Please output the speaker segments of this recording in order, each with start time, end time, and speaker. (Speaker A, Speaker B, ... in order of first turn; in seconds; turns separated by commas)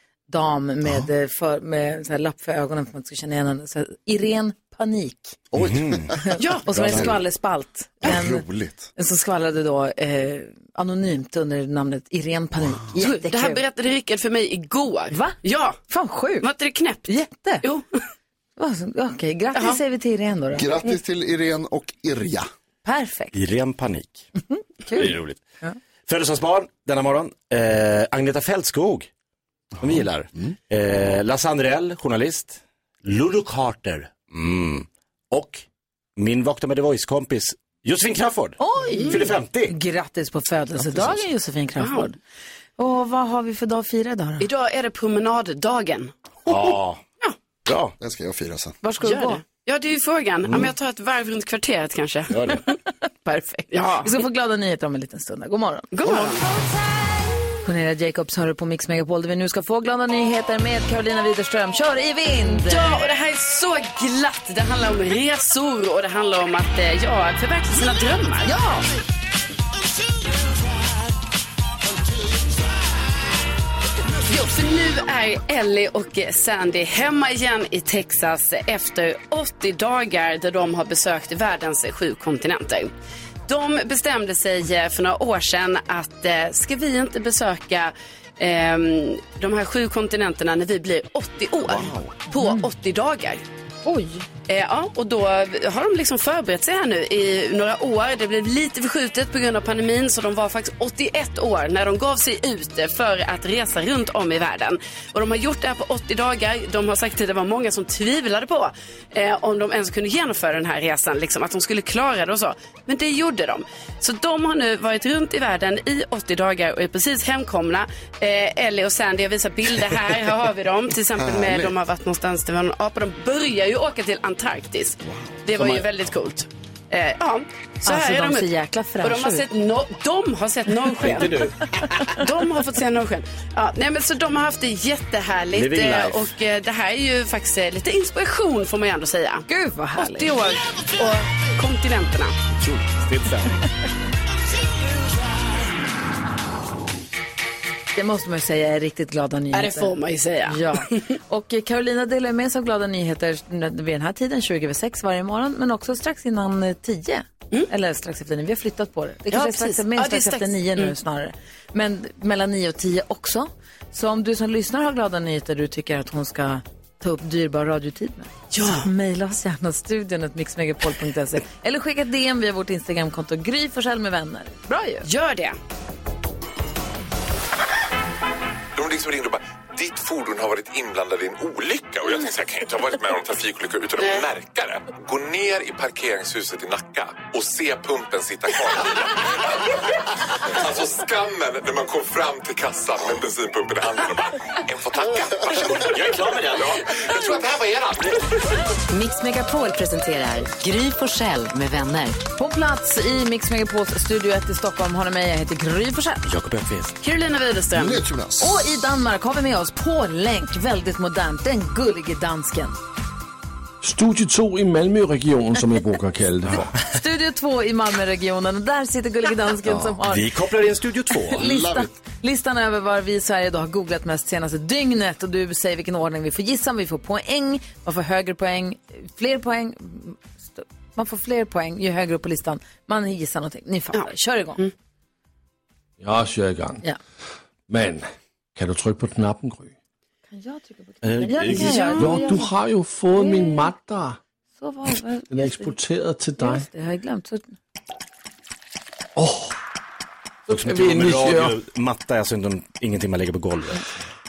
Speaker A: 0.3-5.4, Speaker B: 0.8-1.1, Speaker B: 5.5-6.2, Speaker C: 5.6-6.1, Speaker A: 6.2-13.6, Speaker D: 6.4-6.6, Speaker C: 6.7-7.2, Speaker B: 6.9-7.2, Speaker B: 8.0-8.9, Speaker B: 12.8-13.1, Speaker D: 13.0-15.8, Speaker A: 15.1-16.5, Speaker D: 16.4-17.1, Speaker A: 17.1-17.6, Speaker D: 17.6-18.0, Speaker A: 18.6-20.7, Speaker B: 20.5-22.5, Speaker A: 22.8-23.3, Speaker C: 23.3-24.3, Speaker A: 24.4-25.8, Speaker C: 24.9-25.4, Speaker C: 26.1-29.1, Speaker C: 29.8-35.6, Speaker B: 29.8-30.5, Speaker C: 36.2-39.7, Speaker A: 38.6-42.2, Speaker D: 39.0-39.2, Speaker B: 40.8-41.2, Speaker D: 41.8-42.1, Speaker A: 42.8-44.5, Speaker D: 44.4-46.1, Speaker C: 46.5-47.0, Speaker C: 47.6-47.9, Speaker B: 48.0-48.8, Speaker A: 48.8-49.4, Speaker D: 49.0-52.7, Speaker C: 50.4-50.7, Speaker C: 52.3-52.6, Speaker A: 53.2-55.9, Speaker D: 53.7-54.2, Speaker D: 55.9-56.5, Speaker A: 57.6-63.0, Speaker D: 62.5-68.5, Speaker A: 68.4-68.8, Speaker D: 74.2-82.9, Speaker D: 83.5-93.4, Speaker B: 91.6-92.1, Speaker A: 92.3-92.6, Speaker A: 93.8-94.2, Speaker D: 94.5-128.5, Speaker B: 121.2-121.7, Speaker B: 125.0-125.4, Speaker C: 125.6-125.8, Speaker A: 127.8-129.4, Speaker D: 129.0-131.5, Speaker C: 131.0-131.6, Speaker D: 132.0-142.3, Speaker C: 135.5-136.3, Speaker A: 139.5-140.3, Speaker C: 142.6-143.6, Speaker A: 147.9-149.9, Speaker D: 149.5-151.2, Speaker A: 150.5-175.1, Speaker D: 159.3-160.9, Speaker D: 168.5-168.9, Speaker D: 175.0-175.6, Speaker E: 178.8-189.8, Speaker E: 190.5-198.6, Speaker C: 195.9-196.6, Speaker F: 198.9-202.2, Speaker A: 202.4-206.2, Speaker C: 206.2-206.9, Speaker D: 207.0-208.0, Speaker B: 207.7-208.7, Speaker A: 208.4-212.7, Speaker G: 213.8-216.8, Speaker A: 216.9-220.2, Speaker C: 220.0-221.5, Speaker A: 221.3-234.6, Speaker B: 221.4-221.9, Speaker D: 233.9-234.7, Speaker G: 236.0-236.8, Speaker G: 237.7-239.7, Speaker A: 240.3-242.5, Speaker C: 241.0-242.2, Speaker G: 241.5-244.2, Speaker A: 243.1-243.7, Speaker A: 244.6-245.8, Speaker G: 245.3-246.7, Speaker A: 246.4-247.5, Speaker G: 249.2-249.6, Speaker G: 250.5-251.6, Speaker C: 250.5-253.8